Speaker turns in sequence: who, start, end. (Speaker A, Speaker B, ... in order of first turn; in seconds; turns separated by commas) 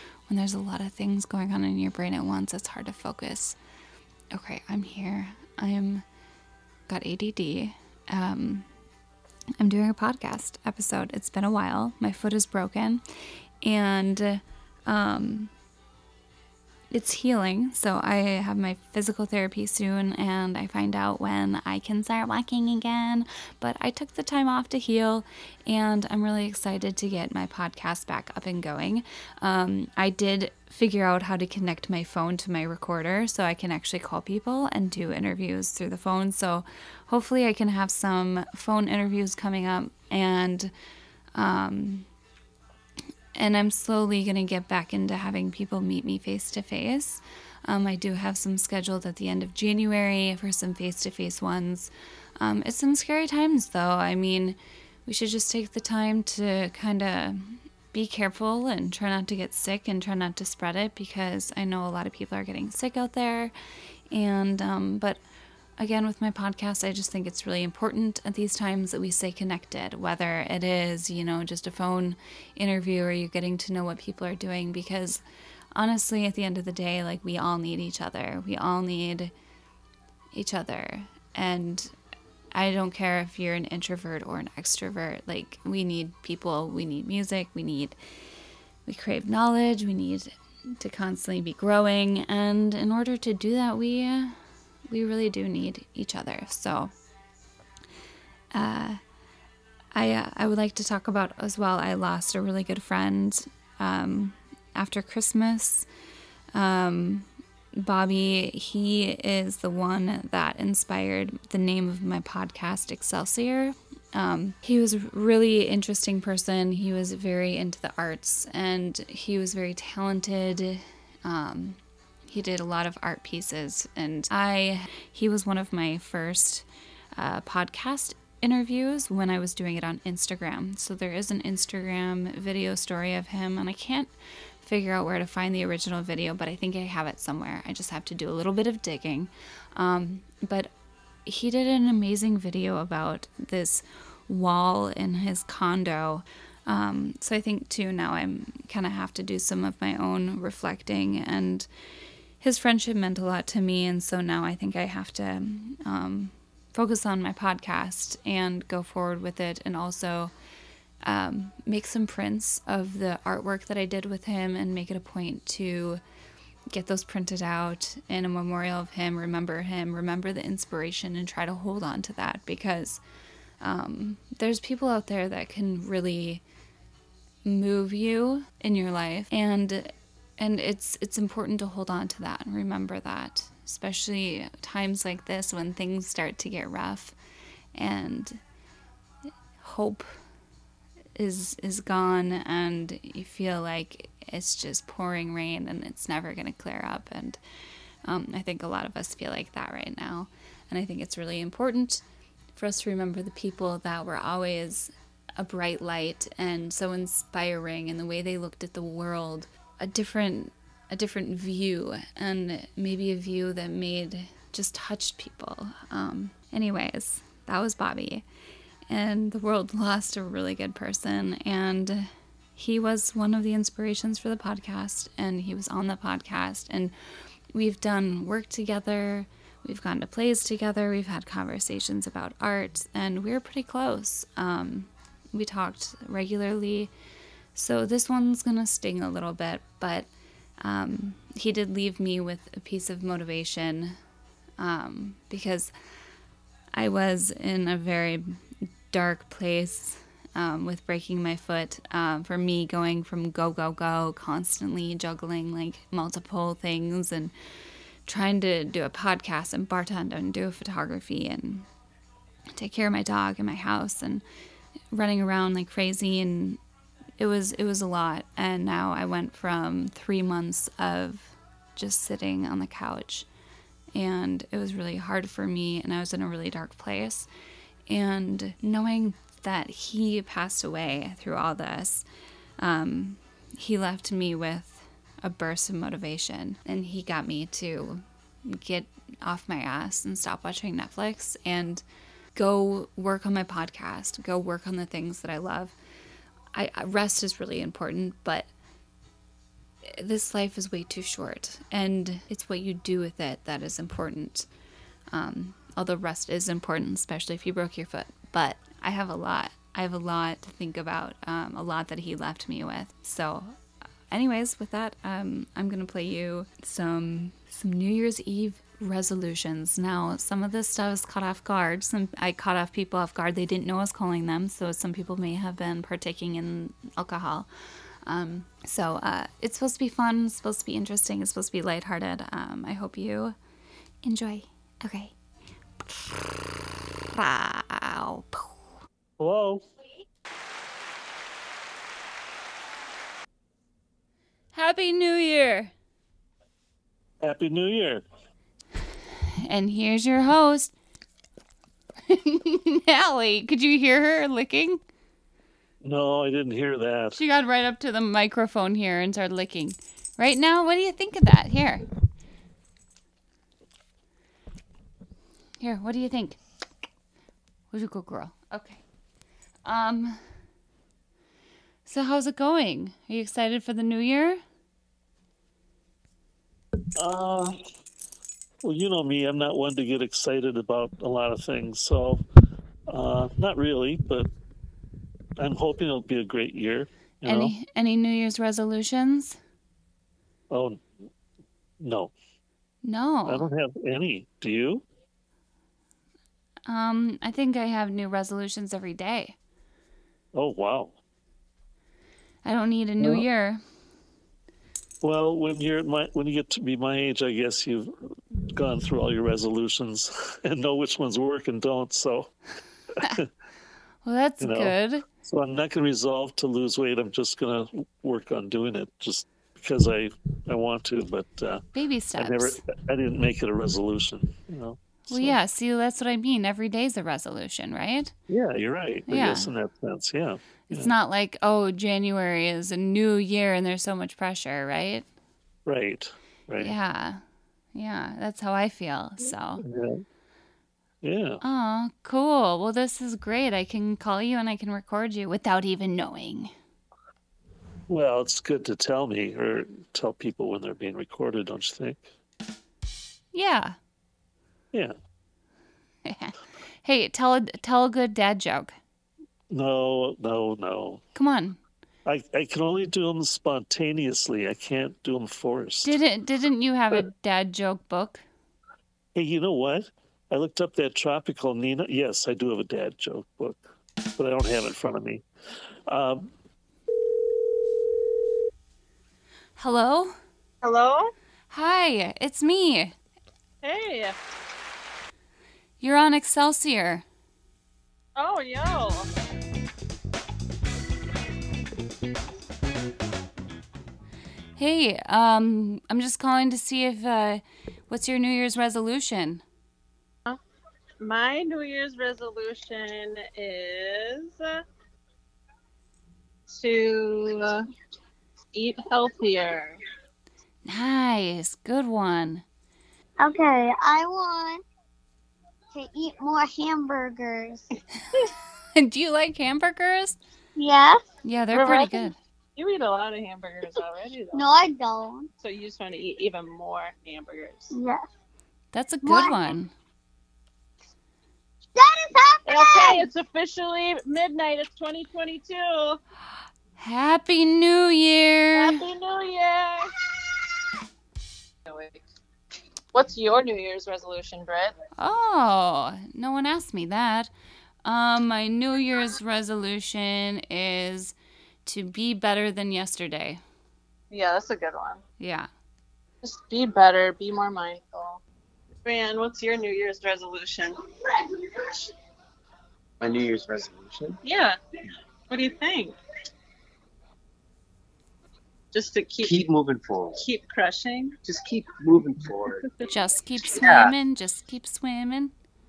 Speaker A: 0.3-3.6, Speaker A: 4.3-6.0, Speaker A: 6.9-8.7, Speaker A: 9.6-13.0, Speaker A: 13.6-15.5, Speaker A: 16.9-40.7, Speaker A: 41.3-42.1, Speaker A: 43.4-63.5, Speaker A: 64.1-65.2, Speaker A: 65.8-75.2, Speaker A: 75.7-79.3, Speaker A: 80.3-81.9, Speaker A: 82.5-88.0, Speaker A: 88.8-94.3, Speaker A: 94.9-96.9, Speaker A: 98.5-99.0, Speaker A: 99.9-105.9, Speaker A: 106.5-121.8, Speaker A: 122.3-140.7, Speaker A: 141.2-151.7, Speaker A: 152.4-160.3, Speaker A: 161.0-166.0, Speaker A: 166.7-173.0, Speaker A: 173.6-176.4, Speaker A: 177.4-187.2, Speaker A: 187.7-188.4, Speaker A: 189.6-190.1, Speaker A: 191.2-197.4, Speaker A: 198.0-202.0, Speaker A: 202.5-218.2, Speaker A: 218.9-226.9, Speaker A: 227.5-236.9, Speaker A: 237.5-240.1, Speaker A: 240.6-244.0, Speaker A: 244.6-245.7, Speaker A: 246.7-248.4, Speaker A: 248.9-257.3, Speaker A: 258.1-261.7, Speaker A: 262.5-264.2, Speaker A: 264.9-266.6, Speaker A: 267.2-273.3, Speaker A: 273.9-277.3, Speaker A: 277.9-282.0, Speaker A: 282.6-291.8, Speaker A: 292.3-295.7, Speaker A: 296.5-298.5, Speaker A: 299.8-304.5, Speaker A: 305.1-313.5, Speaker A: 314.1-327.5, Speaker A: 328.0-333.4, Speaker A: 334.0-335.1, Speaker A: 335.8-336.5, Speaker A: 337.1-338.5, Speaker B: 339.2-339.6, Speaker A: 344.5-345.7, Speaker B: 347.2-348.0, Speaker A: 349.4-350.7, Speaker A: 352.1-354.8, Speaker B: 355.8-357.2, Speaker A: 357.1-361.8, Speaker A: 365.6-366.4, Speaker A: 367.7-368.8, Speaker A: 369.6-370.2, Speaker A: 371.9-374.4, Speaker B: 376.9-377.6, Speaker B: 378.6-382.2, Speaker B: 382.9-384.3, Speaker B: 385.4-387.5, Speaker A: 387.2-389.4, Speaker B: 390.5-390.8, Speaker B: 391.8-392.1, Speaker A: 392.8-393.5, Speaker B: 393.3-394.8, Speaker A: 396.7-399.4, Speaker B: 400.3-400.9, Speaker A: 402.4-403.6, Speaker B: 403.0-403.2, Speaker B: 405.0-407.9, Speaker B: 408.5-412.3, Speaker B: 413.0-413.3, Speaker A: 414.0-415.0, Speaker B: 414.4-421.6, Speaker A: 421.7-422.6, Speaker B: 422.2-425.4, Speaker A: 425.1-428.1, Speaker B: 428.3-430.9, Speaker A: 429.1-429.5, Speaker A: 430.7-435.1, Speaker B: 435.6-436.7, Speaker A: 436.6-437.2, Speaker A: 437.7-439.6, Speaker B: 439.6-440.0, Speaker B: 441.0-441.4, Speaker A: 441.4-446.5, Speaker B: 447.9-452.1, Speaker A: 453.3-453.8, Speaker A: 456.0-458.7, Speaker B: 459.5-461.0, Speaker A: 461.1-461.6, Speaker B: 462.1-466.0, Speaker A: 465.8-468.2, Speaker B: 469.1-473.6, Speaker B: 474.1-475.2, Speaker B: 475.9-476.3, Speaker A: 479.6-480.1, Speaker C: 480.6-481.1, Speaker A: 481.5-482.9, Speaker C: 483.6-484.1, Speaker A: 485.8-487.0, Speaker C: 488.2-489.1, Speaker A: 494.6-499.4, Speaker C: 501.0-504.6, Speaker C: 506.5-507.7, Speaker C: 508.5-509.8, Speaker A: 510.6-512.4, Speaker D: 513.2-514.6, Speaker D: 515.7-517.7, Speaker A: 518.8-520.2, Speaker D: 520.6-521.0, Speaker A: 521.2-522.1, Speaker C: 521.5-524.5, Speaker D: 524.3-525.3, Speaker C: 525.4-527.7, Speaker D: 527.7-528.1, Speaker A: 528.7-529.7, Speaker D: 529.0-529.3, Speaker D: 531.8-533.1, Speaker C: 532.5-536.0, Speaker A: 536.8-538.8, Speaker C: 538.5-539.9, Speaker C: 541.7-542.0, Speaker C: 542.9-544.7, Speaker A: 545.0-547.3, Speaker A: 547.8-551.1, Speaker A: 551.6-553.4, Speaker C: 554.1-555.0, Speaker A: 555.2-555.5, Speaker C: 556.2-558.2, Speaker C: 558.8-561.7, Speaker E: 563.0-564.2, Speaker C: 564.2-564.6, Speaker C: 565.3-566.0, Speaker C: 568.7-569.4, Speaker E: 569.2-570.2, Speaker C: 570.2-571.1, Speaker E: 571.2-572.7, Speaker A: 572.9-575.3, Speaker E: 573.5-573.9